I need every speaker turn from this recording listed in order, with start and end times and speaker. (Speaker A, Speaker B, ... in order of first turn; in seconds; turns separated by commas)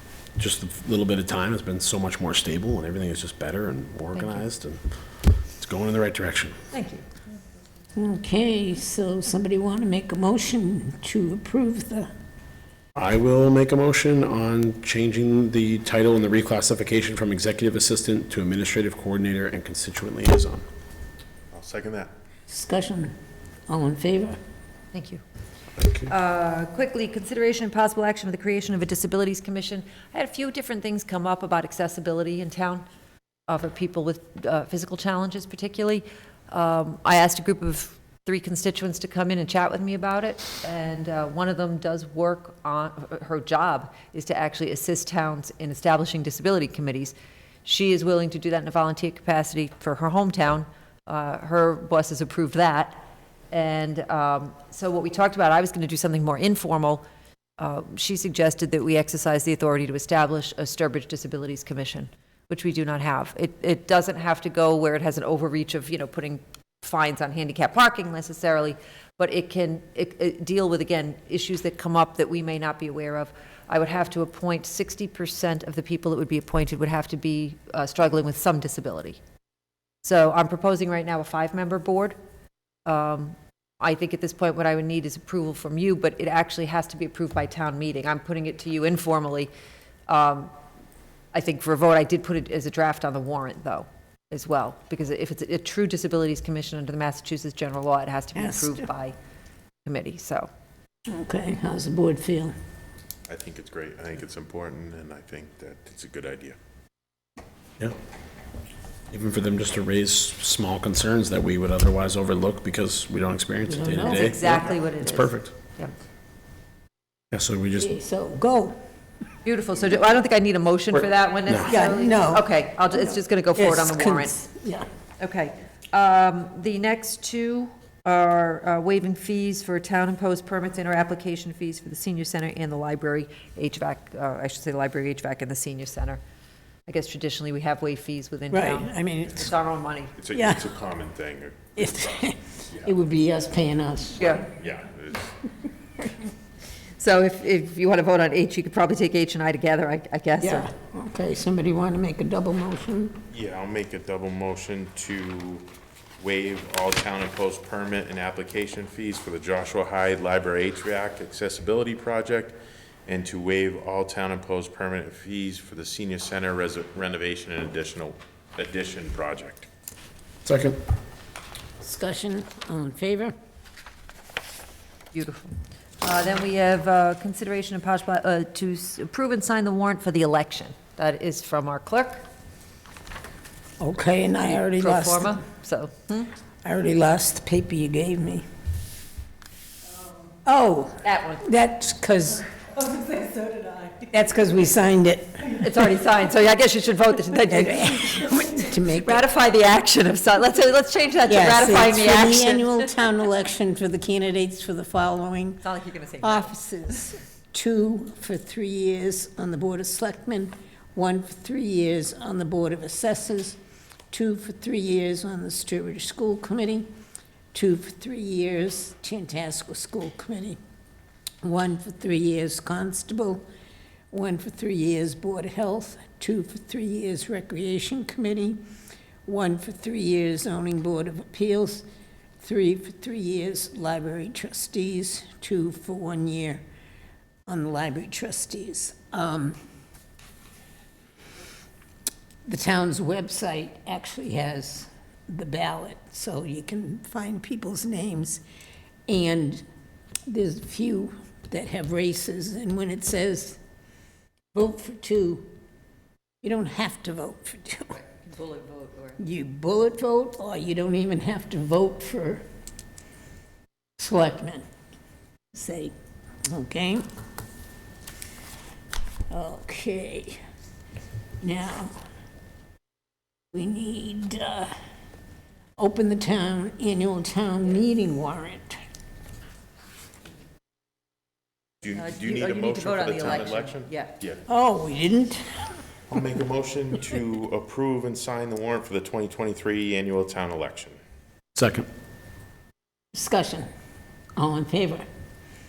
Speaker A: 0.4-4.8, Speaker B: 4.2-4.4, Speaker A: 5.6-6.6, Speaker B: 6.7-7.0, Speaker C: 8.0-12.1, Speaker A: 12.9-20.6, Speaker D: 21.5-22.1, Speaker C: 22.5-23.1, Speaker C: 23.7-24.4, Speaker B: 24.9-25.2, Speaker B: 26.1-32.8, Speaker B: 33.5-57.0, Speaker B: 57.6-79.2, Speaker B: 80.0-82.2, Speaker B: 82.8-89.5, Speaker B: 90.1-90.5, Speaker B: 91.3-99.2, Speaker C: 98.3-98.9, Speaker B: 99.8-100.5, Speaker C: 101.1-102.5, Speaker D: 103.3-106.6, Speaker A: 109.1-115.5, Speaker C: 113.7-114.6, Speaker B: 114.0-115.9, Speaker A: 117.3-117.9, Speaker C: 117.8-118.8, Speaker B: 119.4-124.3, Speaker A: 120.9-121.8, Speaker C: 121.7-124.9, Speaker B: 125.2-136.2, Speaker B: 136.9-140.1, Speaker C: 138.5-139.5, Speaker D: 140.2-142.9, Speaker C: 140.3-140.7, Speaker C: 141.8-144.4, Speaker B: 144.2-144.5, Speaker D: 144.5-145.4, Speaker B: 147.0-150.7, Speaker C: 150.4-153.2, Speaker D: 153.3-169.7, Speaker A: 170.4-170.8, Speaker C: 171.8-173.3, Speaker B: 175.1-182.2, Speaker C: 183.8-185.4, Speaker B: 184.4-186.3, Speaker C: 186.6-188.4, Speaker C: 190.4-192.5, Speaker B: 191.0-191.4, Speaker C: 193.1-195.6, Speaker B: 195.5-202.8, Speaker C: 197.5-199.2, Speaker C: 201.3-205.6, Speaker B: 205.6-206.5, Speaker C: 206.2-213.6, Speaker C: 214.1-216.9, Speaker C: 217.5-220.6, Speaker C: 221.4-223.4, Speaker C: 224.1-228.6, Speaker C: 229.2-231.8, Speaker C: 232.4-236.6, Speaker C: 237.5-239.6, Speaker C: 242.4-248.4, Speaker C: 249.1-249.6, Speaker C: 250.3-253.6, Speaker C: 254.5-255.5, Speaker C: 256.4-257.9, Speaker B: 257.9-259.2, Speaker C: 259.2-262.4, Speaker C: 264.0-264.6, Speaker C: 265.5-265.9, Speaker C: 266.5-267.0, Speaker C: 269.3-270.4, Speaker C: 271.4-271.9, Speaker C: 273.5-274.7, Speaker C: 275.8-278.8, Speaker D: 281.8-284.4, Speaker B: 281.9-284.1, Speaker C: 284.5-285.7, Speaker D: 286.1-291.0, Speaker A: 291.5-291.9, Speaker C: 293.1-293.7, Speaker C: 294.4-295.1